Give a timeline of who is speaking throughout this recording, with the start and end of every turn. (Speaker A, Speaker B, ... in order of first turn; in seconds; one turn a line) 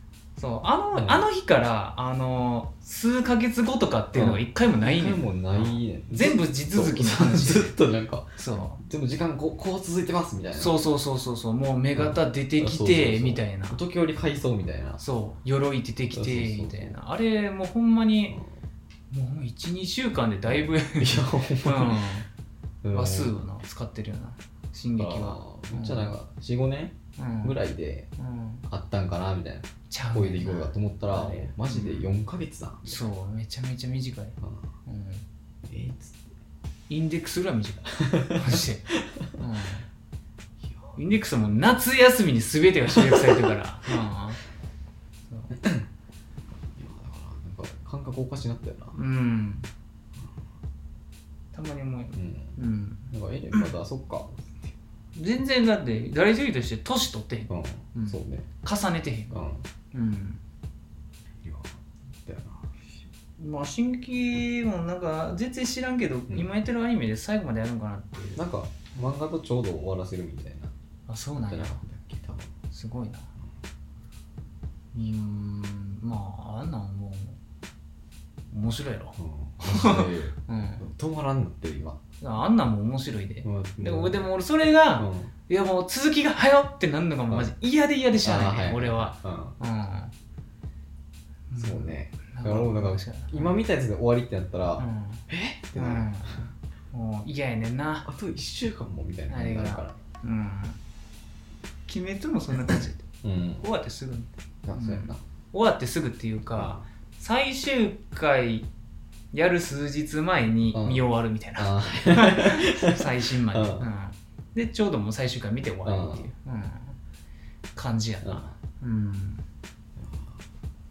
Speaker A: 0.4-7.7
Speaker B: 0.9-1.2
Speaker B: 4.1-10.8
Speaker A: 8.4-8.8
Speaker A: 10.6-13.8
Speaker B: 11.9-15.0
Speaker A: 15.0-18.4
Speaker B: 16.1-17.0
Speaker A: 19.1-22.3
Speaker B: 20.4-22.1
Speaker B: 22.8-23.4
Speaker A: 22.9-26.1
Speaker B: 25.0-28.1
Speaker A: 27.2-27.6
Speaker A: 28.2-28.6
Speaker B: 28.7-33.1
Speaker A: 29.9-32.1
Speaker A: 32.8-35.2
Speaker B: 34.4-34.6
Speaker B: 35.6-36.2
Speaker A: 36.9-39.9
Speaker B: 38.0-39.3
Speaker B: 40.6-41.0
Speaker A: 41.0-44.4
Speaker B: 42.9-43.5
Speaker B: 45.5-45.8
Speaker B: 46.7-49.0
Speaker A: 48.9-49.7
Speaker A: 51.5-53.7
Speaker B: 52.1-52.6
Speaker B: 53.1-54.7
Speaker A: 55.1-59.4
Speaker B: 57.5-58.5
Speaker B: 59.3-59.6
Speaker A: 59.9-60.4
Speaker B: 61.4-62.7
Speaker A: 63.4-69.0
Speaker B: 68.3-70.7
Speaker A: 71.1-71.8
Speaker B: 71.4-72.5
Speaker A: 72.7-73.3
Speaker A: 74.9-77.4
Speaker A: 78.5-80.9
Speaker B: 79.2-82.0
Speaker A: 82.2-90.1
Speaker B: 83.4-84.2
Speaker B: 85.0-85.3
Speaker B: 88.2-89.5
Speaker A: 91.5-93.5
Speaker B: 91.6-96.4
Speaker A: 94.8-95.2
Speaker A: 95.8-98.1
Speaker B: 98.0-100.0
Speaker A: 99.3-100.8
Speaker A: 101.9-103.0
Speaker B: 102.7-103.6
Speaker A: 103.6-108.7
Speaker B: 104.6-105.2
Speaker B: 106.5-106.8
Speaker A: 109.3-117.0
Speaker B: 110.7-113.9
Speaker B: 115.8-116.3
Speaker A: 117.8-119.4
Speaker B: 118.2-118.5
Speaker B: 120.0-120.4